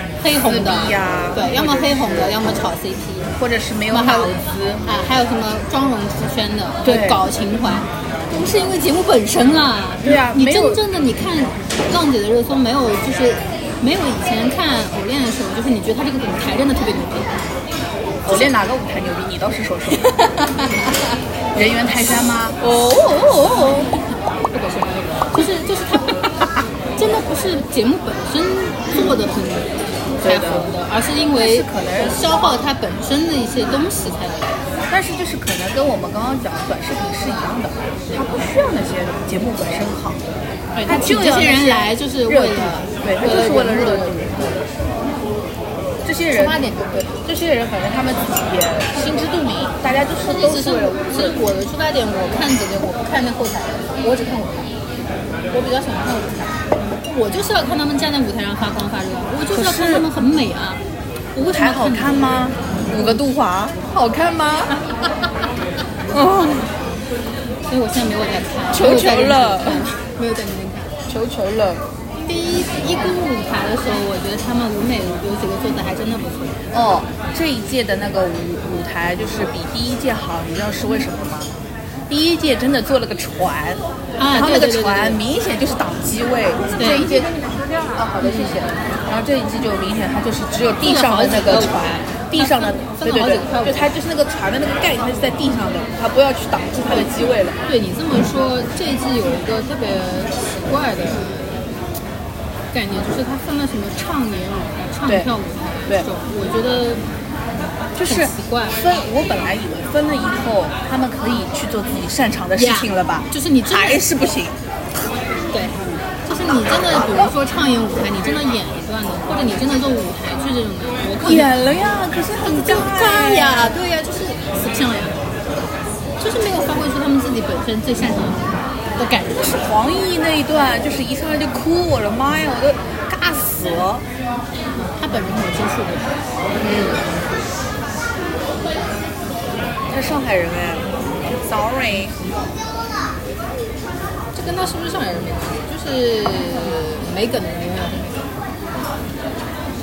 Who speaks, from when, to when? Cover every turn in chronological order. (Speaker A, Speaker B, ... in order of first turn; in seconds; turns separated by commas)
Speaker A: 0.2-3.3, Speaker B: 0.4-2.4, Speaker B: 3.4-5.0, Speaker A: 3.9-17.5, Speaker B: 6.8-7.2, Speaker B: 10.0-10.8, Speaker B: 18.2-20.1, Speaker A: 18.3-18.5, Speaker A: 20.0-21.0, Speaker B: 21.5-22.6, Speaker A: 22.6-26.2, Speaker A: 27.0-34.6, Speaker B: 30.2-30.7, Speaker B: 31.4-32.2, Speaker B: 34.9-40.3, Speaker A: 40.7-44.7, Speaker B: 40.9-44.5, Speaker B: 46.0-46.6, Speaker A: 46.3-47.2, Speaker B: 47.3-51.4, Speaker A: 50.3-54.8, Speaker A: 55.5-60.8, Speaker B: 59.5-60.1, Speaker A: 61.4-63.2, Speaker B: 61.4-64.8, Speaker B: 66.1-66.8, Speaker A: 67.7-71.0, Speaker B: 68.7-69.8, Speaker B: 71.1-71.8, Speaker A: 72.2-76.6, Speaker B: 76.7-81.5, Speaker B: 82.1-97.6, Speaker A: 84.2-85.2, Speaker A: 86.8-87.3, Speaker A: 88.2-88.7, Speaker A: 90.8-93.9, Speaker A: 97.7-101.7, Speaker A: 102.7-107.0, Speaker B: 108.0-114.6, Speaker A: 108.0-108.8, Speaker A: 112.5-114.0, Speaker A: 115.5-121.5, Speaker B: 121.2-123.8, Speaker A: 122.4-125.3, Speaker A: 126.2-129.7, Speaker B: 129.6-134.1, Speaker A: 134.8-136.2, Speaker B: 136.6-137.1, Speaker B: 139.9-142.2, Speaker A: 144.3-148.3